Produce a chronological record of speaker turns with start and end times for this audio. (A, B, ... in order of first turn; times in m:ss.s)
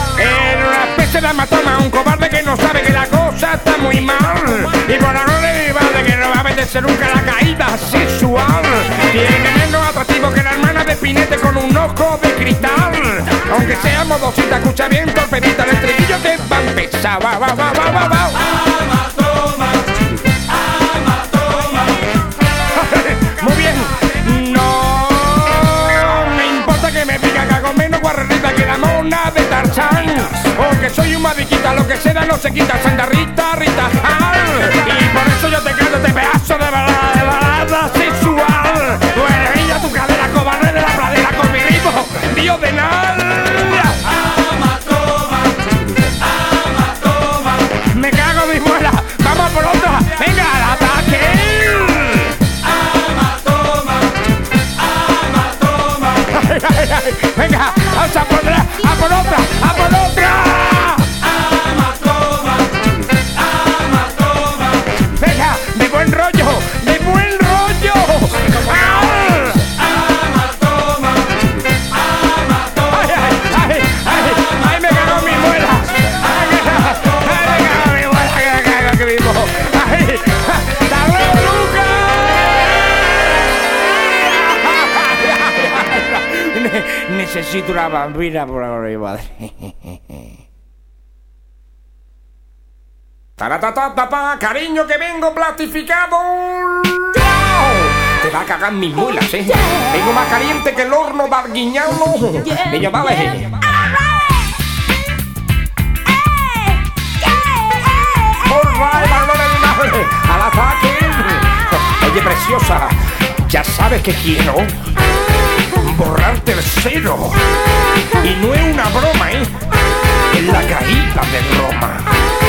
0:00.2-0:18.4 A
0:22.7-0:44.1 A
0:47.8-0:52.3 A
0:56.2-1:01.1 A
1:05.1-1:09.7 A
1:12.9-1:30.0 A
1:33.4-1:43.5 A
1:48.4-1:52.9 A
1:53.5-1:54.7 A
1:55.8-1:57.4 A
1:58.2-1:59.5 A
2:00.3-2:02.1 A